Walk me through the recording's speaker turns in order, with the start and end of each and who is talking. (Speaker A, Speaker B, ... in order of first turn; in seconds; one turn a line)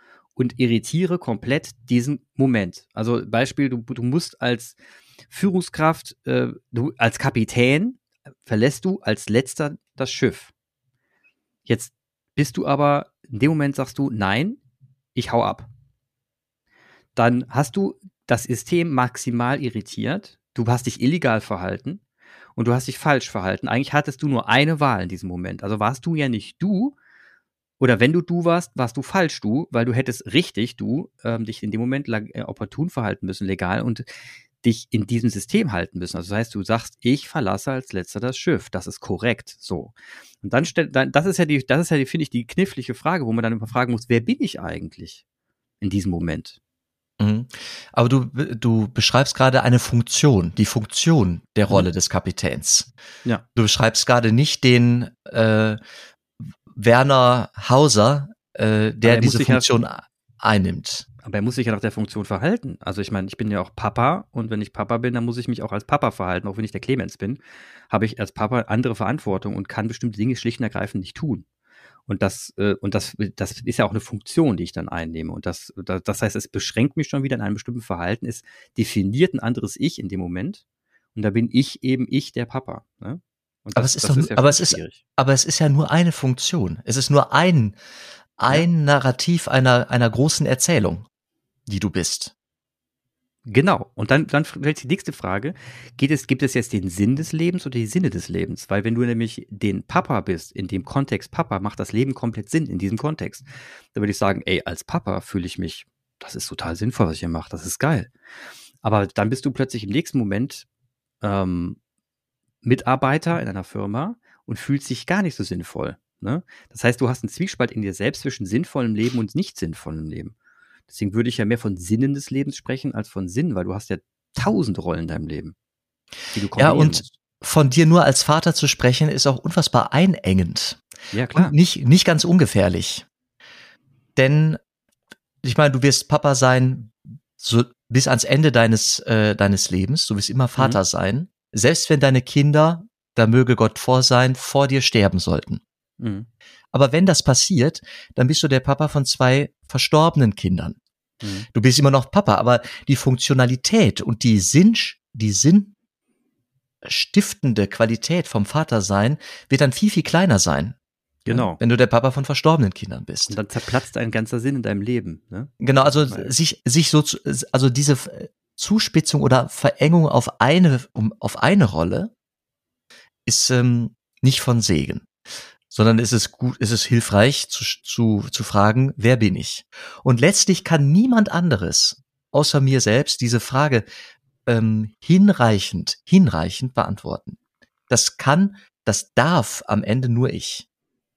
Speaker A: 0.4-4.8
Speaker A: 5.3-10.5
Speaker A: 11.7-14.6
Speaker A: 15.1-15.7
Speaker A: 17.1-22.0
Speaker A: 22.6-26.9
Speaker A: 27.8-34.1
Speaker A: 34.6-45.2
Speaker A: 45.8-46.6
Speaker B: 47.2-52.9
Speaker B: 53.5-55.8
Speaker B: 56.7-61.1
Speaker A: 59.0-59.8
Speaker A: 61.2-71.5
Speaker A: 72.1-80.6
Speaker A: 81.1-85.0
Speaker B: 83.8-87.8
Speaker B: 88.4-91.1
Speaker B: 91.7-92.3
Speaker A: 93.5-108.1
Speaker A: 108.8-110.7
Speaker A: 111.2-111.8
Speaker A: 112.6-120.3
Speaker A: 120.9-125.5
Speaker A: 126.3-127.1
Speaker B: 126.6-130.8
Speaker A: 131.1-131.5
Speaker B: 131.3-133.0
Speaker B: 134.2-134.6
Speaker B: 135.4-145.6
Speaker A: 146.0-146.3
Speaker B: 146.7-150.8
Speaker A: 151.2-151.5
Speaker B: 151.5-155.7
Speaker B: 156.8-160.8
Speaker A: 161.2-161.6
Speaker B: 161.3-163.4
Speaker A: 163.3-165.5
Speaker B: 165.6-172.1
Speaker A: 166.1-166.3
Speaker B: 173.2-175.1
Speaker B: 175.7-183.8
Speaker B: 184.5-187.4
Speaker B: 187.9-190.7